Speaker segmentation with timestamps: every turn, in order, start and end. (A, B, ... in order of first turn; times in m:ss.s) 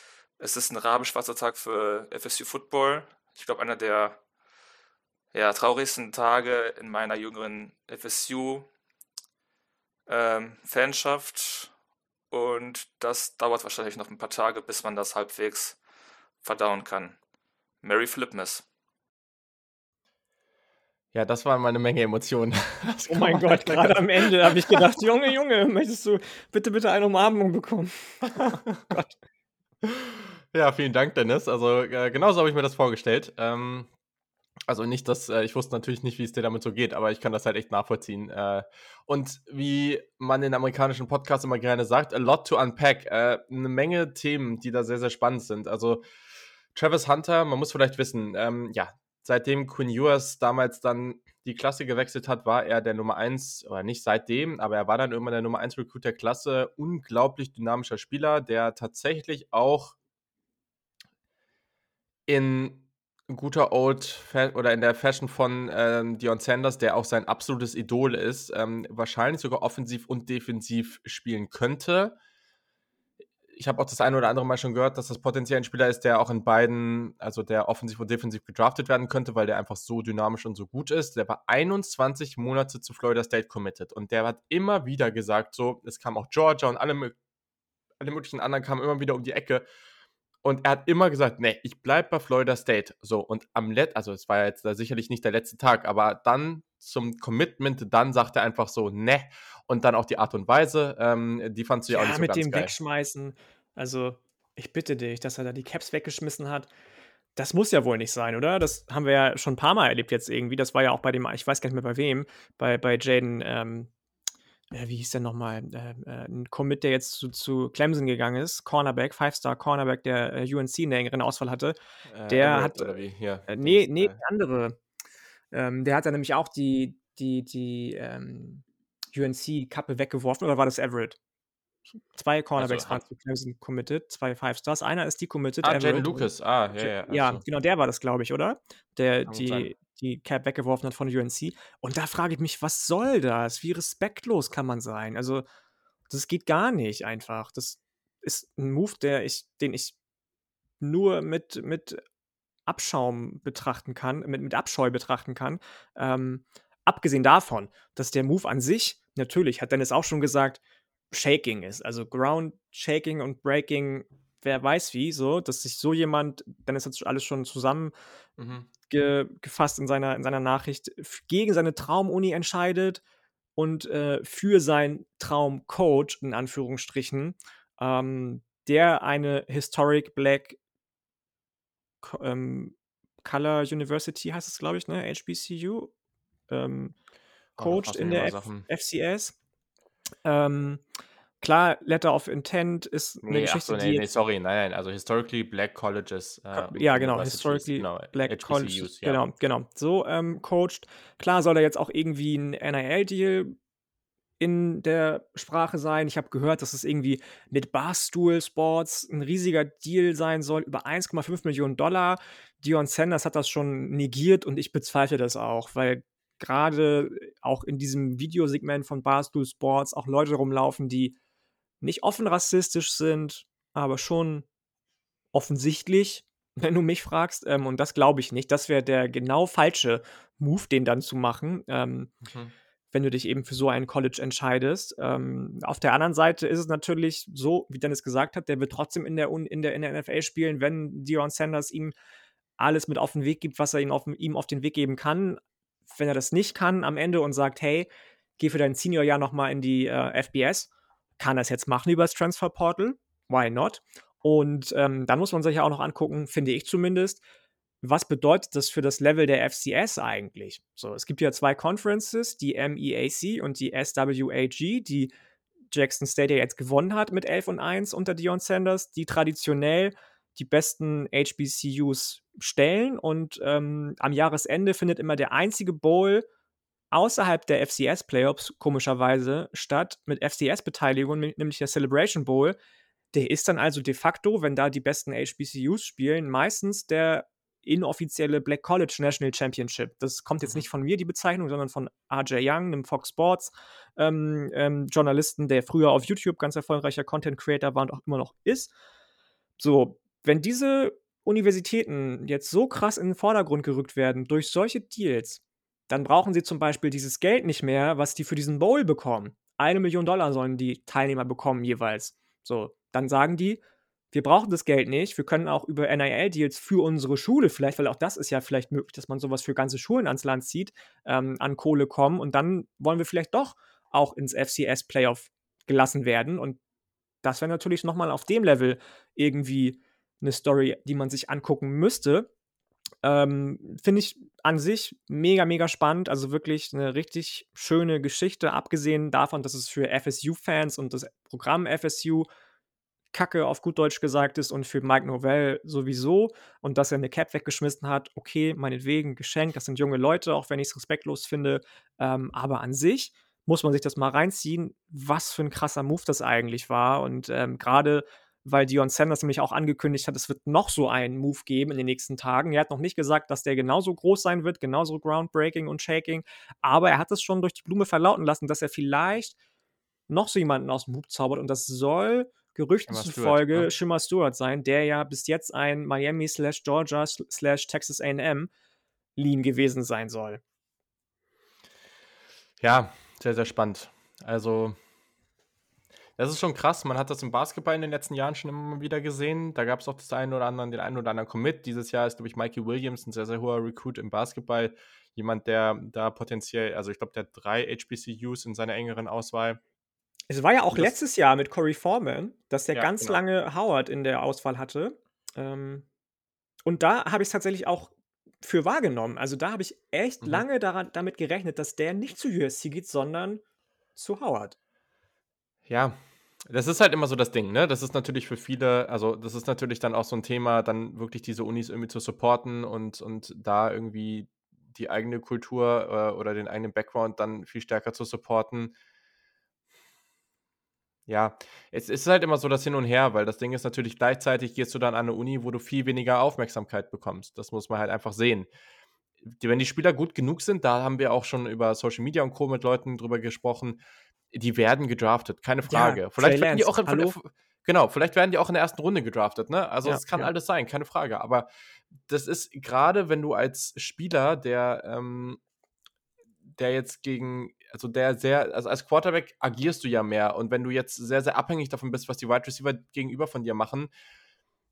0:00.4-0:04.2 A
0:05.3-0:08.7 A
0:10.1-0:11.7 A
0:12.3-0:15.8 A
0:16.4-0:17.2 A
0:17.8-0:18.6 A
0:21.1-0:24.8 B
0:23.1-0:29.1 C
0:29.8-0:33.9 B
0:34.7-0:46.0 B
0:46.7-1:00.0 B
1:02.3-1:12.2 B
1:13.5-1:27.1 B
1:28.0-1:29.6 B
1:30.4-1:42.7 B
1:41.9-1:46.7 C
1:47.4-1:53.9 C
1:54.7-2:01.8 C
2:02.1-2:04.2 B
2:02.3-2:04.8 C
2:05.5-2:11.2 C
2:12.1-2:25.4 C
2:12.6-2:13.0 B
2:15.6-2:17.4 B
2:19.3-2:19.7 B
2:26.1-2:30.0 C
2:30.8-2:32.0 C
2:32.7-2:40.6 C
2:41.1-2:47.9 C
2:48.4-2:48.7 B
2:48.9-2:53.0 C
2:53.6-3:00.6 C
3:02.0-3:05.9 C
3:06.5-3:06.9 C
3:07.6-3:08.6 B
3:07.6-3:09.4 C
3:10.2-3:10.8 C
3:11.4-3:14.0 C
3:13.2-3:19.2 B
3:16.5-3:23.6 C
3:24.4-3:41.2 C
3:41.8-3:44.5 C
3:45.3-3:52.1 C
3:52.2-3:52.5 B
3:52.9-4:01.9 C
4:02.6-4:17.2 C
4:17.8-4:25.1 C
4:25.7-4:36.2 C
4:36.9-4:42.6 C
4:43.1-4:58.7 C
4:59.6-5:13.6 C
5:14.1-5:26.6 C
5:27.2-5:32.3 C
5:33.0-5:42.3 C
5:43.1-6:09.4 C
6:10.1-6:18.5 C
6:12.9-6:13.7 B
6:19.2-6:20.4 C
6:22.6-6:24.8 B
6:26.2-6:39.6 B
6:40.3-6:45.8 C
6:42.7-6:43.2 B
6:46.6-6:53.4 C
6:54.0-6:54.6 C
6:55.7-7:08.7 B
7:11.1-7:18.5 B
7:19.3-7:23.8 B
7:24.3-7:31.5 B
7:25.6-7:27.2 C
7:29.8-7:30.3 C
7:32.1-7:35.4 B
7:36.6-7:43.9 B